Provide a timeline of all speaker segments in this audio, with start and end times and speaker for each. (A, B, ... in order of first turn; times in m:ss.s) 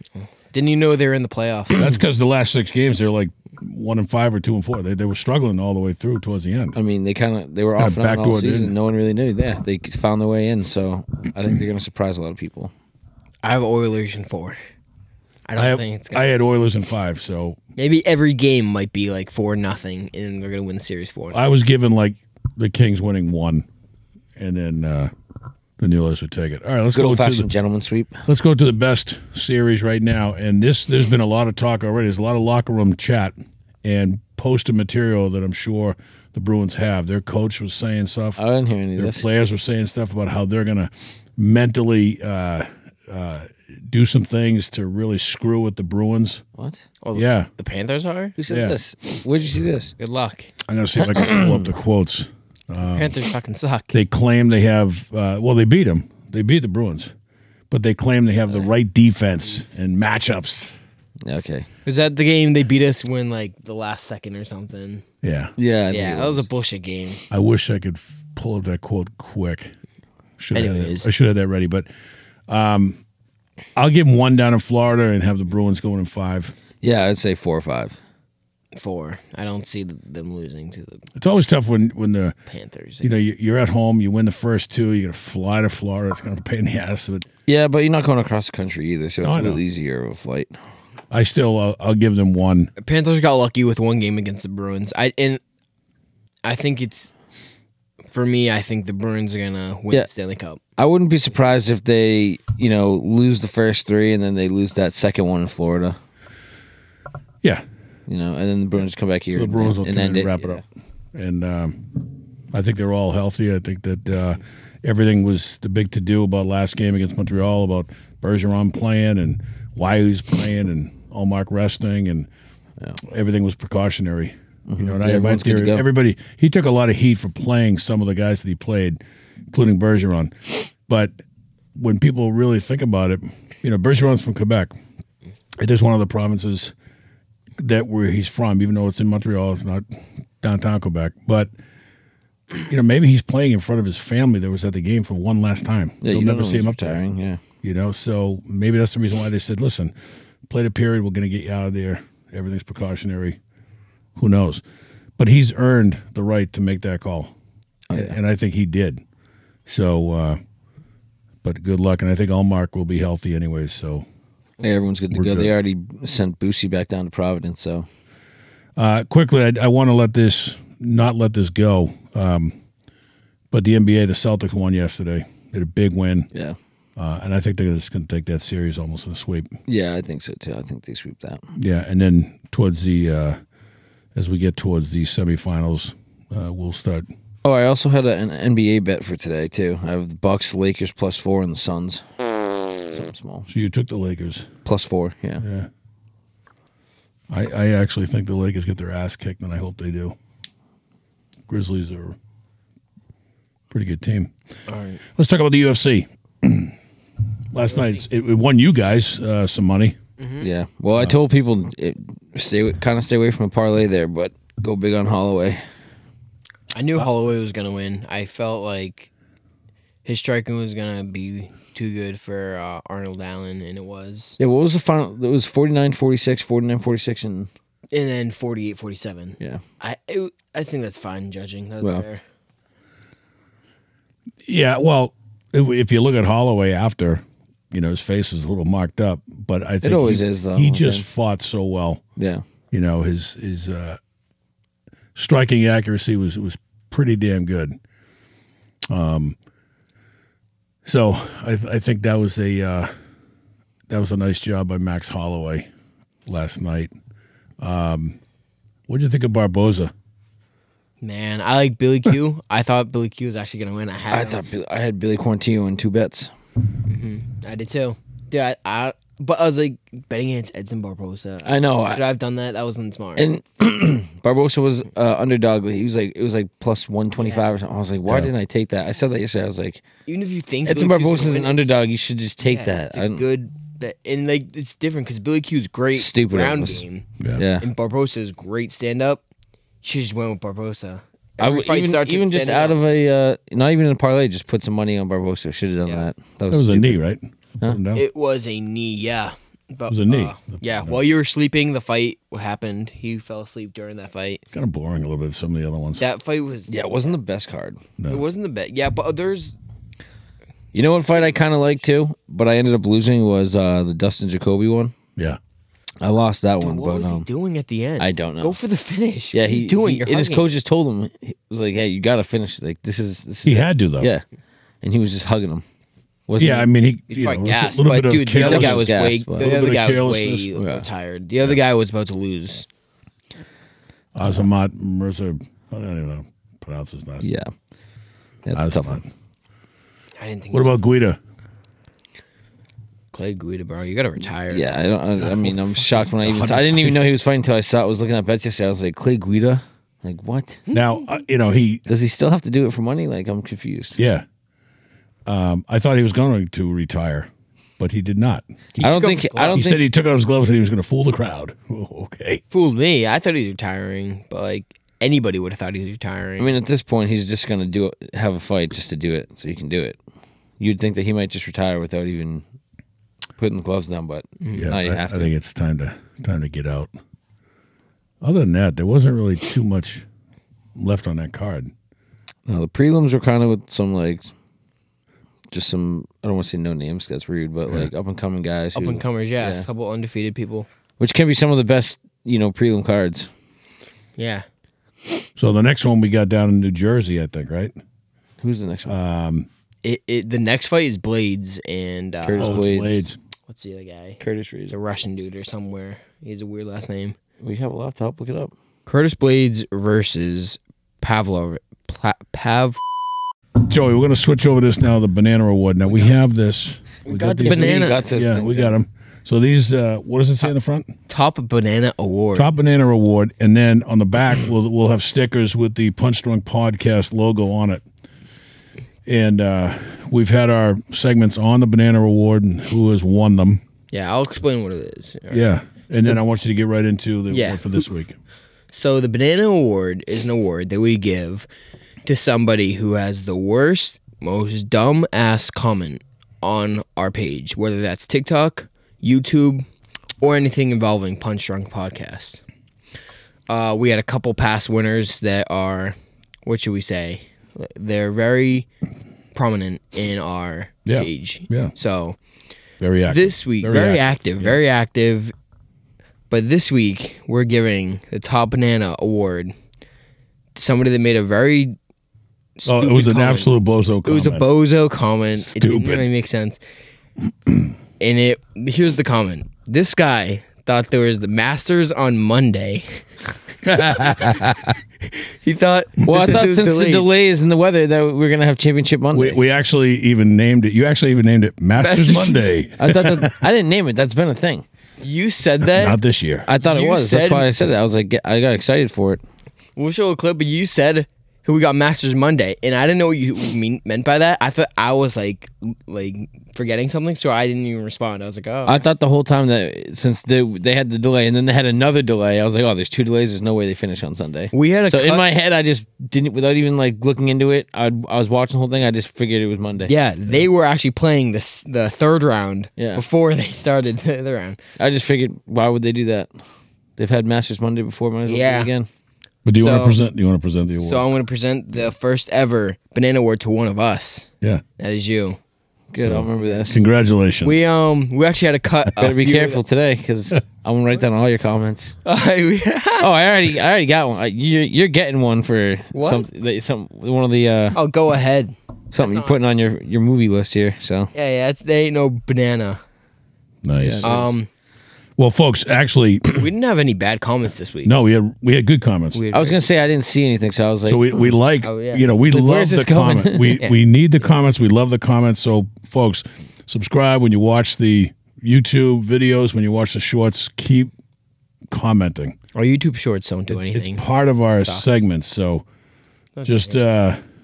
0:00.5-0:01.8 A
0:01.7-0:06.8 B
0:06.7-0:12.7 C
0:07.8-0:08.7 B
0:13.4-0:14.6 A
0:15.4-0:16.3 A
0:15.6-0:17.6 B
0:17.8-0:21.4 A
0:21.3-0:23.6 B
0:24.4-0:25.1 B
0:25.8-0:27.5 B
0:26.9-0:28.2 C
0:28.3-0:38.4 B
0:38.4-0:39.3 C
0:39.0-0:46.4 B
0:46.6-0:46.8 C
0:47.0-0:48.3 A
0:47.1-0:47.5 B
0:48.4-0:49.9 C
0:48.5-0:48.8 B
0:50.0-0:50.5 A
0:50.6-0:53.2 B
0:51.3-0:51.5 C
0:52.9-0:54.0 A
0:53.9-0:57.1 B
0:57.7-1:00.8 B
1:01.2-1:01.7 C
1:01.8-1:05.0 A
1:05.2-1:05.5 B
1:05.6-1:06.4 C
1:05.9-1:07.2 A
1:07.3-1:09.7 B
1:10.4-1:11.9 B
1:10.5-1:11.1 A
1:12.5-1:13.0 B
1:13.8-1:16.5 B
1:16.8-1:18.0 C
1:18.7-1:21.1 A
1:21.2-1:22.4 B
1:22.5-1:23.1 A
1:23.0-1:27.2 B
1:27.5-1:30.6 C
1:29.2-1:29.6 B
1:31.1-1:32.7 B
1:32.8-1:35.4 A
1:36.4-1:37.1 A
1:38.1-1:40.6 A
1:40.8-1:46.0 C
1:48.1-1:50.6 C
1:49.3-1:50.6 B
1:51.1-2:02.3 B
2:03.0-2:09.0 B
2:04.7-2:05.8 C
2:09.5-2:11.2 B
2:11.7-2:14.7 B
2:15.6-2:16.7 B
2:17.6-2:21.5 B
2:22.7-2:27.0 B
2:26.0-2:27.4 C
2:27.6-2:29.9 B
2:30.5-2:33.4 B
2:34.2-2:34.6 B
2:35.2-2:37.3 B
2:37.9-2:38.2 C
2:37.9-2:39.0 B
2:39.6-2:40.4 B
2:41.4-2:44.0 B
2:44.6-2:47.9 C
2:45.1-2:45.5 B
2:48.8-2:52.5 B
2:53.5-2:56.3 B
2:56.3-2:56.6 C
2:57.0-2:59.6 B
2:59.7-3:01.5 C
3:01.6-3:03.4 B
3:04.1-3:07.1 B
3:07.4-3:13.5 C
3:13.5-3:14.5 B
3:14.6-3:15.4 C
3:15.4-3:15.7 B
3:17.3-3:20.2 B
3:21.5-3:22.2 B
3:23.7-3:24.3 B
3:24.7-3:25.0 A
3:25.1-3:26.8 B
3:27.5-3:30.0 B
3:30.2-3:30.5 A
3:30.4-3:35.6 C
3:36.7-3:39.1 A
3:40.0-3:44.4 A
3:44.4-3:47.5 C
3:47.9-3:52.2 A
3:54.4-4:02.0 B
3:59.8-4:01.0 C
4:02.2-4:02.4 C
4:02.7-4:04.0 B
4:05.1-4:07.8 B
4:08.9-4:09.4 B
4:10.8-4:12.9 B
4:13.9-4:15.7 B
4:16.2-4:16.9 B
4:17.6-4:18.2 B
4:18.9-4:19.9 B
4:21.0-4:24.4 A
4:24.1-4:26.3 C
4:26.8-4:33.3 A
4:31.4-4:32.0 C
4:33.2-4:39.8 C
4:40.1-4:41.7 A
4:40.6-4:43.2 C
4:42.4-4:47.1 A
4:45.9-4:47.6 C
4:47.6-4:49.2 A
4:49.8-4:52.8 A
4:51.4-4:57.0 C
4:56.5-4:58.0 B
4:57.9-5:04.4 A
4:59.9-5:01.0 B
5:04.5-5:06.0 B
5:06.0-5:06.7 A
5:06.7-5:07.8 C
5:08.0-5:08.2 B
5:08.1-5:09.5 A
5:10.7-5:14.9 C
5:16.0-5:17.2 C
5:16.6-5:20.4 A
5:18.0-5:18.6 C
5:19.3-5:24.2 C
5:23.4-5:24.1 B
5:24.8-5:25.6 C
5:26.3-5:26.6 C
5:26.4-5:30.5 B
5:27.1-5:32.6 A
5:28.4-5:29.5 C
5:30.6-5:30.8 C
5:34.1-5:37.3 B
5:37.2-5:37.5 C
5:38.4-5:39.0 C
5:38.5-5:39.1 B
5:40.2-5:40.8 A
5:40.5-5:41.2 B
5:43.1-5:44.7 A
5:44.5-5:50.6 C
5:45.2-5:45.5 B
5:46.2-5:47.0 B
5:50.7-5:51.8 B
5:51.9-5:54.0 C
5:54.0-5:54.2 B
5:55.2-5:58.6 B
5:58.7-5:59.6 A
5:58.8-5:59.8 C
5:59.5-6:02.4 B
6:02.5-6:06.5 A
6:06.4-6:10.0 C
6:10.6-6:12.4 C
6:13.4-6:15.3 C
6:14.4-6:14.7 A
6:14.5-6:16.9 B
6:18.2-6:20.0 B
6:20.7-6:21.7 B
6:22.5-6:24.3 C
6:25.5-6:29.6 C
6:28.7-6:30.7 A
6:31.0-6:33.3 C
6:34.2-6:34.4 A
6:35.4-6:37.7 B
6:38.4-6:38.9 C
6:38.9-6:39.5 B
6:39.8-6:42.6 A
6:42.2-6:43.0 C
6:42.4-6:43.2 B
6:43.5-6:47.2 A
6:44.2-6:44.7 C
6:47.4-6:48.5 C
6:48.9-6:52.8 A
6:53.6-7:00.9 B
6:57.0-6:58.6 A
6:57.1-6:58.7 C
7:01.1-7:02.5 A
7:02.3-7:07.8 B
7:09.0-7:13.6 B
7:13.9-7:15.4 A
7:15.3-7:18.1 B
7:17.3-7:17.8 A
7:18.7-7:21.5 A
7:22.0-7:29.6 A
7:30.2-7:32.4 A
7:33.5-7:38.7 A
7:39.3-7:42.2 A
7:40.8-7:41.7 B
7:42.8-7:44.6 B
7:43.1-7:45.3 A
7:46.3-7:49.5 A
7:50.6-7:51.7 A
7:52.6-7:53.5 A
7:52.6-7:54.5 B
7:54.0-7:56.6 A
7:55.4-7:56.1 B
7:58.0-8:03.0 A
8:03.6-8:04.3 A
8:03.8-8:04.5 B
8:05.1-8:07.1 A
8:06.0-8:09.4 C
8:09.1-8:13.4 B
8:11.8-8:12.5 A
8:12.8-8:14.6 C
8:15.0-8:16.0 A
8:15.6-8:16.5 B
8:16.5-8:19.2 C
8:16.6-8:17.6 A
8:19.8-8:28.8 A
8:28.7-8:39.9 C
8:34.5-8:35.2 A
8:39.9-8:44.6 A
8:42.8-8:43.0 C
8:44.8-8:46.4 C
8:47.0-8:48.9 C
8:48.3-8:48.7 A
8:49.4-8:51.0 B
8:49.6-8:50.0 A
8:50.8-8:55.4 A
8:55.9-8:56.8 C
8:56.0-8:57.6 B
8:57.4-8:59.6 A
8:59.0-9:02.0 C
9:02.0-9:03.1 A
9:03.0-9:07.8 C
9:05.9-9:06.3 A
9:07.7-9:09.4 A
9:08.9-9:11.1 C
9:11.1-9:12.8 A
9:13.6-9:14.2 B
9:13.7-9:14.3 C
9:14.0-9:14.5 A
9:15.2-9:16.4 B
9:16.3-9:17.9 A
9:17.8-9:19.2 B
9:19.1-9:19.6 A
9:19.3-9:21.2 C
9:20.8-9:30.9 B
9:21.6-9:22.2 A
9:22.3-9:23.6 C
9:31.7-9:32.4 B
9:32.5-9:34.0 A
9:33.5-9:35.6 B
9:34.6-9:35.0 A
9:36.4-9:36.8 A
9:36.4-9:37.2 B